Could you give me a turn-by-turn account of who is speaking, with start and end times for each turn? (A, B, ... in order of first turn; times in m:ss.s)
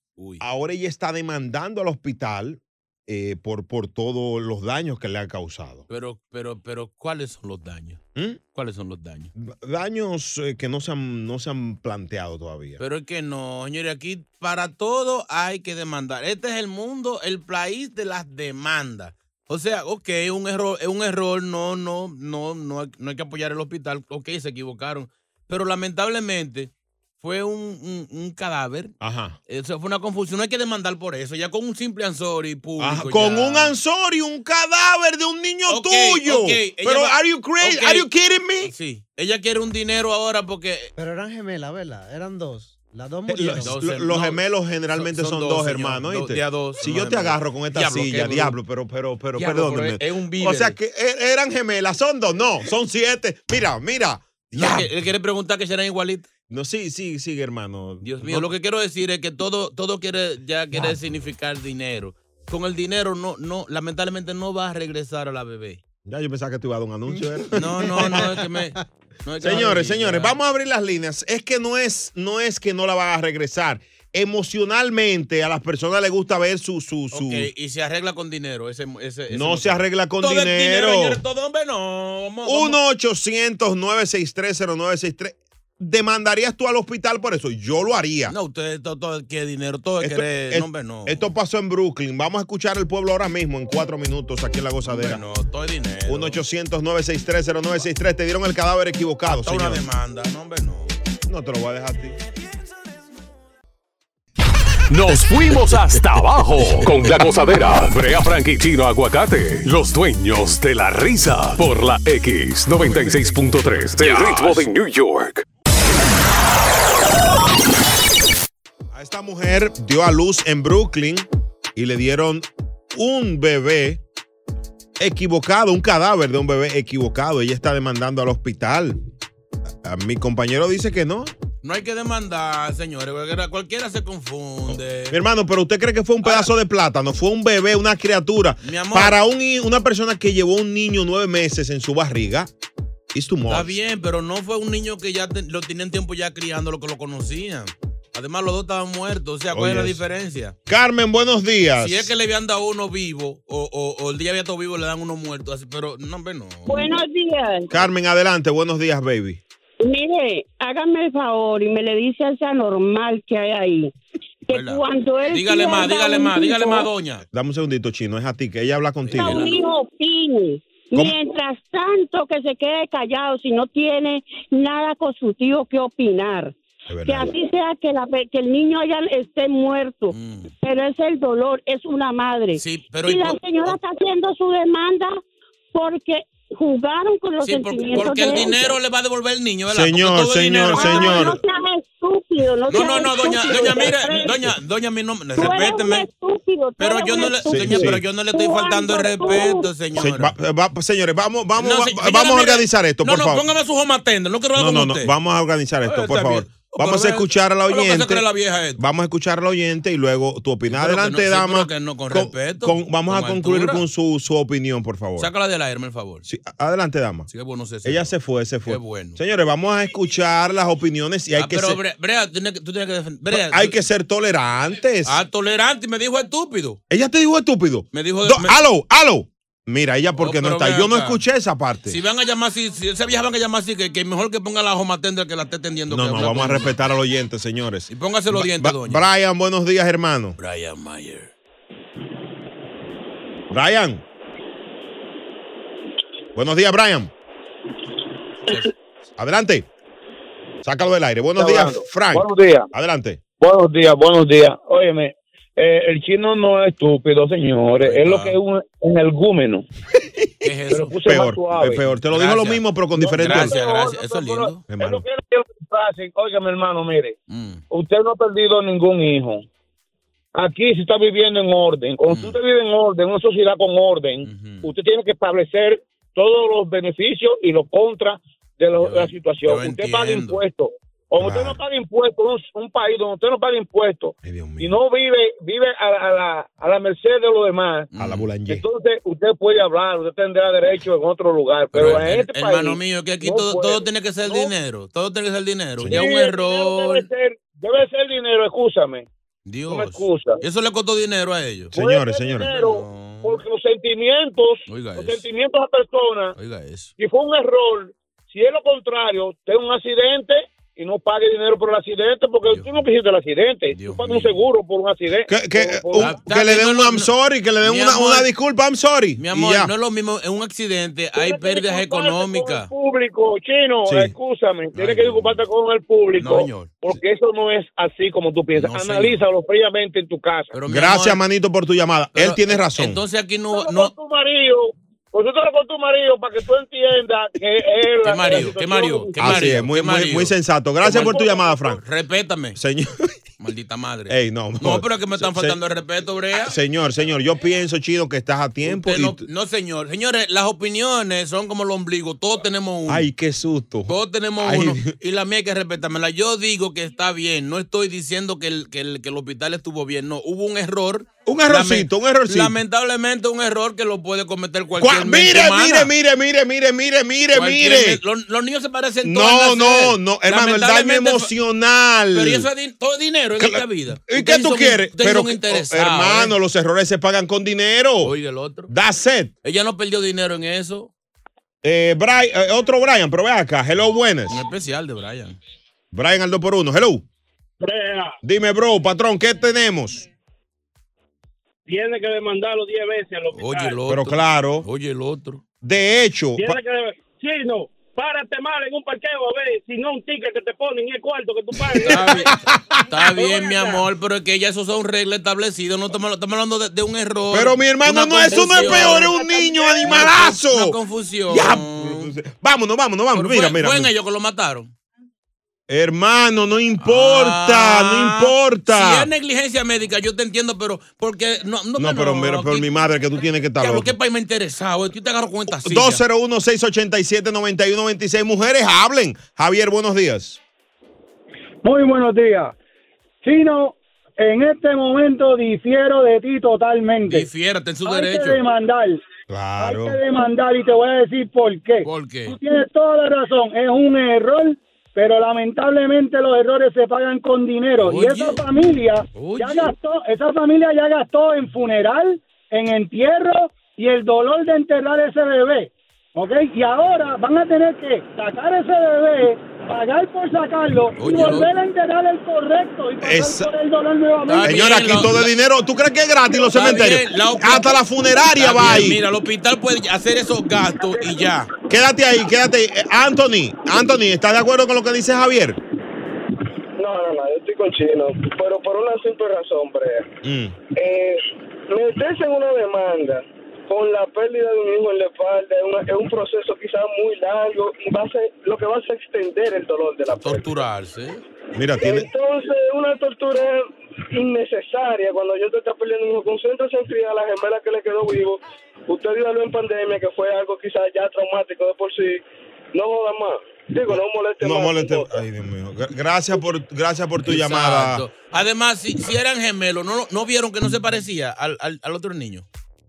0:00.2-0:00.4 A
0:00.4-0:05.9 B
0:05.9-0:08.0 A
0:08.5-0:09.3 A
0:09.4-0:12.8 B
0:12.8-0:29.0 A
0:29.0-0:29.4 B
0:29.5-0:33.7 A
0:32.8-0:38.7 B
0:35.7-0:38.1 A
0:38.6-0:40.9 A
0:41.0-0:43.7 C
0:43.3-0:54.9 B
0:43.6-0:44.4 A
0:45.0-0:48.6 A
0:49.4-0:50.7 A
0:54.6-0:56.3 A
0:56.5-0:58.5 B
0:58.0-1:05.8 A
1:06.0-1:08.3 B
1:07.5-1:10.4 A
1:08.0-1:08.3 C
1:09.4-1:17.5 B
1:17.1-1:22.8 A
1:19.3-1:21.2 B
1:22.4-1:28.4 B
1:28.3-1:31.3 A
1:30.0-1:35.2 B
1:34.9-1:36.4 A
1:36.0-1:39.8 B
1:39.3-1:40.9 A
1:41.3-1:42.2 B
1:44.9-1:55.4 D
1:54.0-1:54.7 A
1:58.9-2:04.0 B
2:05.0-2:09.0 B
2:09.8-2:11.3 B
2:11.6-2:15.2 A
2:14.7-2:22.5 B
2:16.2-2:16.5 A
2:18.6-2:19.2 A
2:23.1-2:23.7 B
2:23.5-2:30.6 A
2:29.5-2:30.0 B
2:30.7-2:32.1 B
2:31.8-2:37.0 A
2:36.7-2:37.6 E
2:37.7-2:39.4 B
2:39.8-2:43.9 E
2:44.5-2:47.2 A
2:44.5-2:46.4 E
2:47.3-2:49.5 B
2:49.0-2:49.6 A
2:49.4-2:56.5 E
2:56.9-2:57.3 B
2:57.1-3:00.0 E
3:00.1-3:00.5 A
3:00.6-3:05.2 E
3:02.5-3:03.8 A
3:05.7-3:08.6 E
3:07.4-3:11.4 A
3:09.7-3:11.4 B
3:10.7-3:14.3 E
3:12.7-3:16.1 A
3:15.4-3:17.5 E
3:16.8-3:20.3 A
3:17.4-3:18.0 B
3:18.3-3:19.6 E
3:20.0-3:23.4 B
3:21.6-3:25.1 A
3:24.6-3:28.2 B
3:25.8-3:28.8 A
3:28.8-3:35.3 B
3:30.7-3:33.8 A
3:35.2-3:36.2 A
3:36.2-3:37.3 B
3:37.3-3:38.1 A
3:37.8-3:41.8 B
3:38.6-3:39.2 A
3:41.4-3:43.8 A
3:43.3-3:45.2 B
3:45.0-3:46.8 A
3:46.9-3:52.0 B
3:47.9-3:48.6 A
3:50.2-3:51.2 A
3:51.9-3:56.8 A
3:55.9-4:00.4 B
3:57.9-3:59.1 A
4:00.4-4:01.3 A
4:03.5-4:04.0 B
4:06.4-4:07.1 B
4:08.5-4:08.7 A
4:09.2-4:09.7 B
4:10.6-4:13.2 B
4:11.4-4:12.7 F
4:13.4-4:19.7 F
4:17.8-4:18.4 A
4:20.2-4:20.5 B
4:20.4-4:21.0 A
4:20.7-4:21.8 F
4:21.0-4:23.6 B
4:21.9-4:24.6 A
4:23.0-4:27.2 F
4:24.7-4:25.0 B
4:27.3-4:27.6 A
4:27.7-4:29.4 F
4:30.4-4:47.9 F
4:32.1-4:32.4 A
4:34.2-4:34.7 A
4:38.8-4:40.4 A
4:41.2-4:41.6 B
4:44.2-4:44.8 B
4:47.9-4:48.3 A
4:48.0-4:48.6 B
4:48.5-4:54.5 F
4:51.7-4:57.1 A
4:55.8-4:56.0 B
4:55.9-4:59.1 F
4:59.4-5:01.7 A
4:59.7-5:00.4 F
5:01.7-5:02.6 B
5:01.8-5:06.4 F
5:02.4-5:03.4 A
5:04.7-5:05.2 A
5:06.4-5:06.9 A
5:07.0-5:16.1 F
5:12.4-5:12.7 A
5:13.7-5:14.4 A
5:15.3-5:19.7 B
5:16.0-5:17.1 A
5:17.6-5:18.3 A
5:19.2-5:22.7 A
5:21.1-5:30.6 F
5:23.9-5:24.1 B
5:24.7-5:25.4 A
5:26.2-5:26.9 A
5:28.6-5:29.2 A
5:30.5-5:31.2 A
5:30.7-5:33.0 B
5:32.1-5:33.9 A
5:33.5-5:39.4 F
5:38.0-5:42.6 A
5:39.2-5:41.8 B
5:42.6-5:43.2 B
5:43.4-5:46.6 A
5:44.1-5:45.6 B
5:46.4-5:49.2 B
5:48.6-5:53.1 A
5:52.9-5:54.9 B
5:53.9-6:05.9 A
6:01.3-6:02.6 B
6:04.8-6:08.0 B
6:07.3-6:11.3 A
6:09.0-6:12.5 B
6:12.1-6:16.3 A
6:13.4-6:18.1 B
6:18.0-6:18.7 A
6:18.7-6:19.3 B
6:19.4-6:20.9 A
6:21.6-6:24.4 B
6:24.3-6:25.4 A
6:25.9-6:27.0 B
6:27.6-6:28.1 G
6:28.2-6:30.0 B
6:31.7-6:33.8 G
6:33.3-6:35.4 A
6:33.9-6:34.7 B
6:35.6-6:36.6 B
6:36.4-6:42.0 G
6:41.7-6:42.8 B
6:41.8-6:42.3 A
6:42.9-6:52.1 A
6:43.2-6:43.8 G
6:47.3-6:50.8 B
6:51.3-6:53.9 B
6:53.1-6:54.7 A
6:55.7-6:59.1 B
6:56.8-7:02.7 A
7:01.8-7:03.9 B
7:03.6-7:06.0 A
7:05.6-7:10.4 B
7:11.6-7:12.5 H
7:13.2-7:17.3 H
7:17.1-7:18.4 A
7:17.9-7:19.0 H
7:19.3-7:20.0 B
7:19.6-7:44.7 H
7:21.8-7:22.4 A
7:27.8-7:28.4 A
7:29.1-7:29.7 A
7:41.0-7:41.6 A
7:43.0-7:43.5 B
7:44.3-7:45.3 A
7:44.4-7:49.0 B
7:46.5-7:51.5 A
7:51.7-7:55.6 B
7:56.8-8:00.1 I
8:00.2-8:00.6 B
8:00.8-8:10.4 I
8:10.1-8:11.2 A
8:11.6-8:12.1 B
8:11.8-8:13.6 I
8:14.1-8:22.2 I
8:22.7-8:25.0 I
8:23.9-8:28.0 B
8:27.2-8:32.4 A